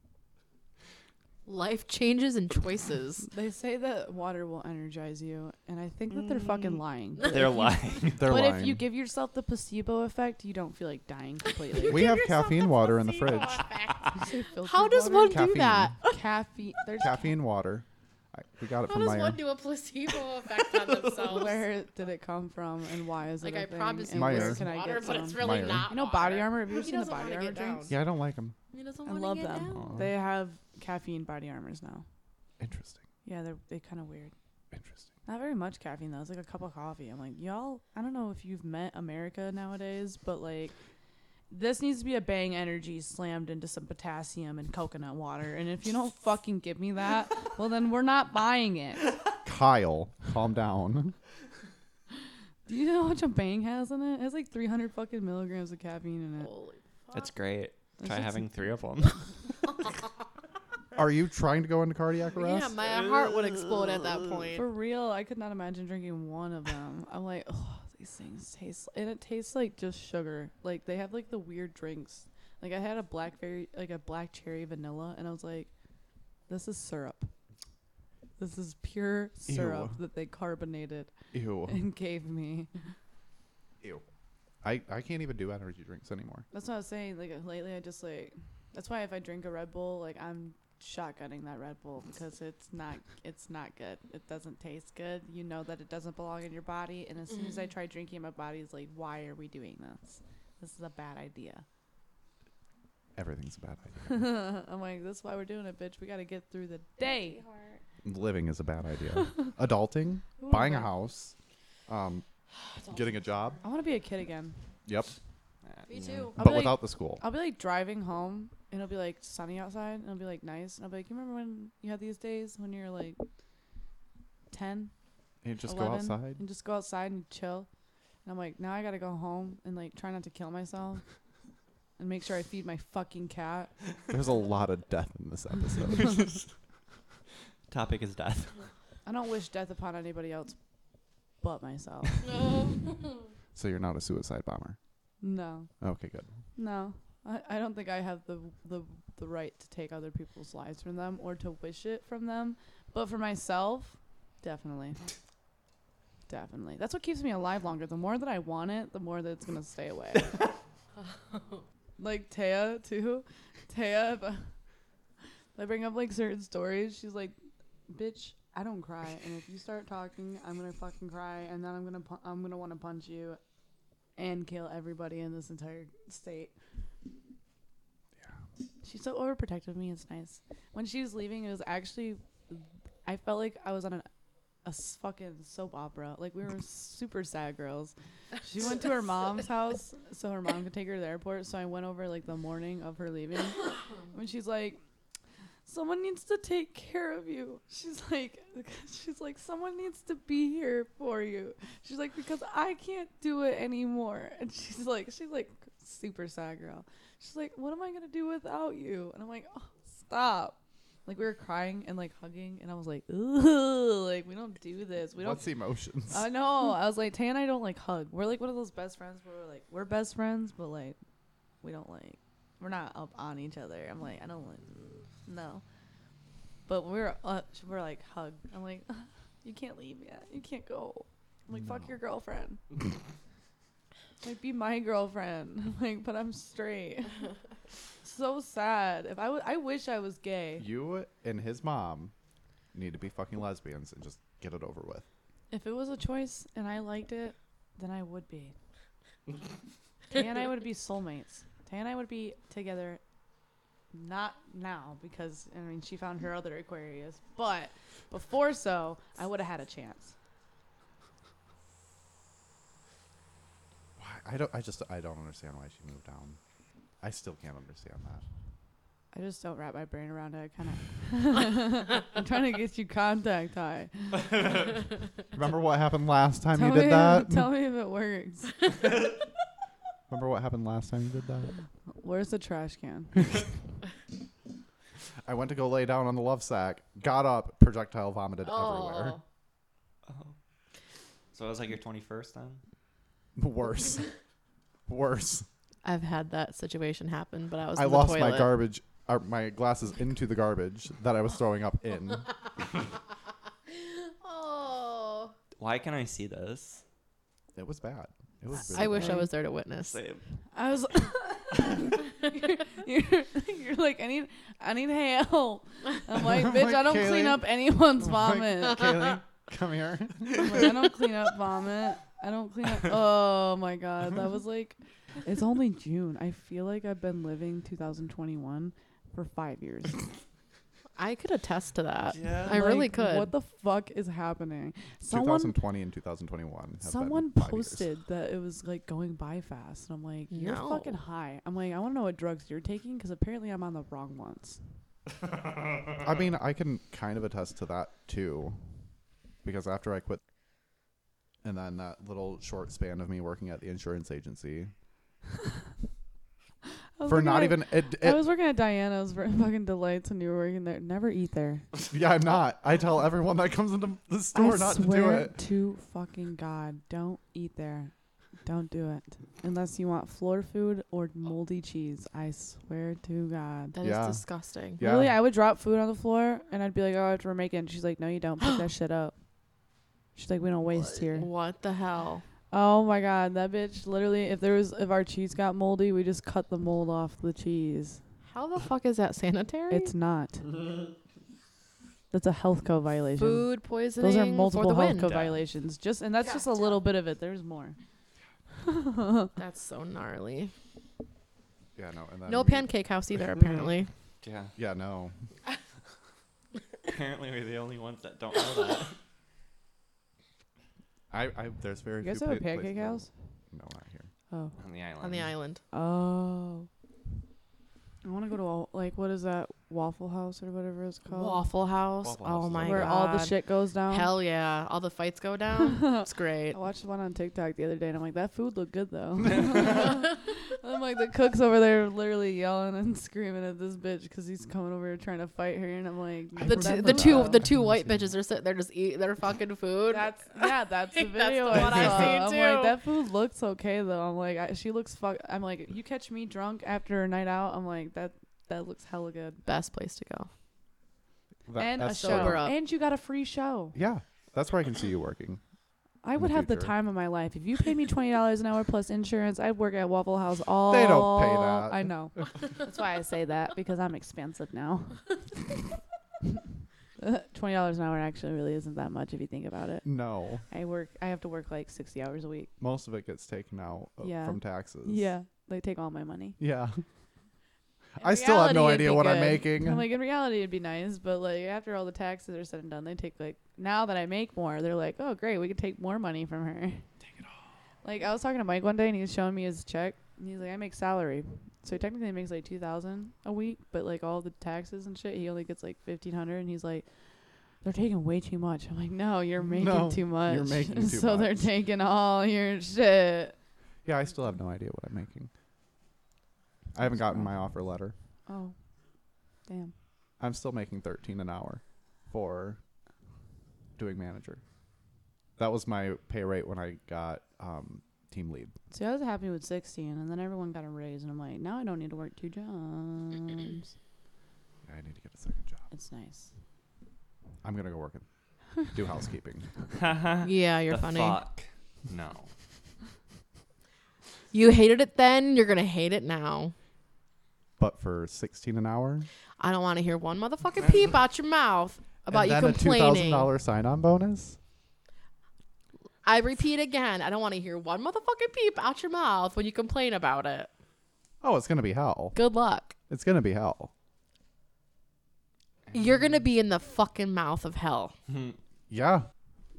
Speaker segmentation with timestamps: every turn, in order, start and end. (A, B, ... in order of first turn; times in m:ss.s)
0:01.5-0:03.3 A
0:03.2-0:12.1 B
0:06.3-0:06.6 C
0:07.2-0:08.2 C
0:08.2-0:08.8 D
0:11.8-0:16.2 A
0:11.9-0:13.6 D
0:14.1-0:15.5 B
0:15.2-0:16.0 D
0:16.0-0:17.3 B
0:17.0-0:19.4 D
0:18.9-0:21.6 A
0:21.2-0:27.9 B
0:23.4-0:28.0 A
0:24.1-0:24.6 D
0:25.4-0:25.9 D
0:27.9-0:28.6 D
0:28.7-0:30.1 A
0:29.1-0:32.0 B
0:29.7-0:30.1 D
0:32.6-0:33.0 D
0:33.2-0:34.3 B
0:34.7-0:35.1 D
0:35.3-0:40.7 B
0:41.5-0:49.0 B
0:49.4-0:51.2 D
0:52.7-0:56.5 B
0:56.4-0:57.3 A
0:57.1-0:59.3 C
0:58.0-0:58.5 B
1:01.0-1:02.7 D
1:02.3-1:04.7 A
1:02.9-1:04.3 C
1:04.6-1:15.7 B
1:16.5-1:17.3 B
1:18.4-1:21.1 B
1:19.5-1:20.0 D
1:21.3-1:21.8 D
1:21.7-1:22.7 B
1:24.6-1:26.4 D
1:26.5-1:41.6 B
1:43.2-1:44.3 D
1:44.1-1:47.4 B
1:47.1-1:47.8 A
1:48.0-1:51.4 D
1:50.4-1:50.9 B
1:51.9-1:52.2 D
1:52.8-1:53.6 A
1:52.9-1:53.6 D
1:53.6-1:54.6 B
1:54.9-1:55.1 D
1:55.6-1:56.3 C
1:55.9-1:56.4 A
1:56.4-1:57.2 D
1:56.4-2:03.2 B
2:04.5-2:04.9 B
2:05.4-2:06.4 D
2:05.6-2:07.7 B
2:08.2-2:11.0 B
2:12.0-2:13.7 B
2:14.1-2:16.3 D
2:17.7-2:18.7 C
2:19.1-2:20.6 B
2:21.4-2:22.2 B
2:23.5-2:24.8 D
2:25.2-2:25.7 B
2:25.8-2:26.3 D
2:26.6-2:35.1 B
2:36.3-2:40.4 B
2:42.0-2:44.5 B
2:45.6-2:47.4 B
2:47.9-2:53.4 B
2:54.2-2:56.5 B
2:58.8-3:04.1 B
3:04.6-3:14.8 B
3:15.6-3:35.4 B
3:35.2-3:36.3 D
3:36.1-3:41.0 B
3:41.6-3:45.6 B
3:46.7-3:52.6 B
3:51.5-3:51.9 D
3:54.2-3:57.3 B
3:58.0-4:00.7 B
4:00.6-4:02.1 D
4:02.7-4:05.0 D
4:05.5-4:08.5 B
4:10.1-4:13.0 B
4:13.9-4:20.2 B
4:24.0-4:26.4 D
4:27.0-4:28.2 D
4:29.1-4:34.2 B
4:35.3-4:37.5 D
4:36.5-4:38.6 B
4:40.1-4:41.5 D
4:42.0-4:43.3 B
4:45.2-4:49.2 D
4:48.4-4:49.2 A
4:50.1-4:50.4 C
4:51.3-4:52.6 C
4:53.4-4:54.1 D
4:54.9-4:55.5 D
4:55.8-4:58.5 A
4:57.8-5:02.3 D
5:03.8-5:05.3 A
5:05.6-5:06.8 C
5:07.6-5:09.3 D
5:08.7-5:10.0 A
5:08.9-5:09.3 B
5:09.8-5:10.2 C
5:10.5-5:18.9 B
5:16.2-5:17.5 D
5:18.0-5:20.8 D
5:20.3-5:30.1 B
5:31.0-5:33.3 A
5:32.1-5:32.7 C
5:32.5-5:35.6 B
5:35.1-5:37.8 D
5:36.8-5:44.6 B
5:40.3-5:41.0 A
5:46.0-5:48.6 D
5:49.4-5:50.2 D
5:51.4-5:54.7 D
5:57.0-6:01.7 B
5:57.1-5:58.2 D
6:01.9-6:05.4 D
6:04.3-6:07.9 B
6:08.4-6:13.8 B
6:13.7-6:14.8 A
6:13.8-6:14.2 D
6:14.8-6:15.2 D
6:14.8-6:19.2 B
6:20.2-6:21.3 B
6:21.0-6:22.2 A
6:22.5-6:28.0 B
6:28.3-6:29.9 A
6:29.7-6:30.5 B
6:32.1-6:37.8 B
6:33.2-6:35.2 A
6:35.0-6:35.4 C
6:38.6-6:39.3 B
6:39.4-6:40.5 A
6:41.8-6:42.7 D
6:42.3-6:43.9 A
6:44.2-6:44.5 C
6:44.6-6:45.2 D
6:46.8-6:49.0 C
6:51.1-6:54.1 D
6:52.0-6:53.1 B
6:54.6-6:55.3 C
6:55.0-6:55.6 A
6:55.7-6:56.7 B
6:58.0-7:01.5 B
7:01.1-7:03.4 A
7:02.0-7:02.9 C
7:02.6-7:04.1 B
7:03.9-7:06.6 A
7:05.6-7:17.4 B
7:16.4-7:17.9 D
7:16.4-7:22.8 A
7:19.9-7:29.4 B
7:29.5-7:30.3 A
7:31.5-7:32.4 D
7:31.6-7:33.8 B
7:31.9-7:32.6 A
7:33.8-7:35.4 D
7:36.0-7:45.1 B
7:36.2-7:36.7 D
7:40.7-7:42.2 D
7:47.0-7:49.9 B
7:49.8-7:50.4 D
7:50.5-7:52.5 B
7:52.6-7:55.1 D
7:54.0-7:56.4 B
7:56.4-7:56.8 D
7:58.0-7:59.8 D
7:58.0-8:06.9 B
8:07.8-8:16.9 B
8:17.6-8:23.4 B
8:19.5-8:21.5 D
8:23.8-8:25.3 D
8:26.7-8:28.0 D
8:28.3-8:28.6 B
8:29.5-8:29.7 B
8:30.2-8:32.6 D
8:33.8-8:34.4 D
8:35.4-8:38.5 D
8:38.7-8:43.7 B
8:44.7-8:45.6 D
8:45.7-8:46.3 B
8:47.4-8:48.0 D
8:48.6-8:49.5 D
8:49.7-8:52.3 C
8:50.2-8:51.2 A
8:54.3-8:56.5 A
8:57.6-8:59.1 D
8:59.4-9:03.3 A
9:02.1-9:04.4 D
9:06.0-9:10.5 A
9:11.2-9:12.2 D
9:12.1-9:12.7 A
9:12.9-9:13.7 D
9:15.7-9:18.0 A
9:18.7-9:19.1 D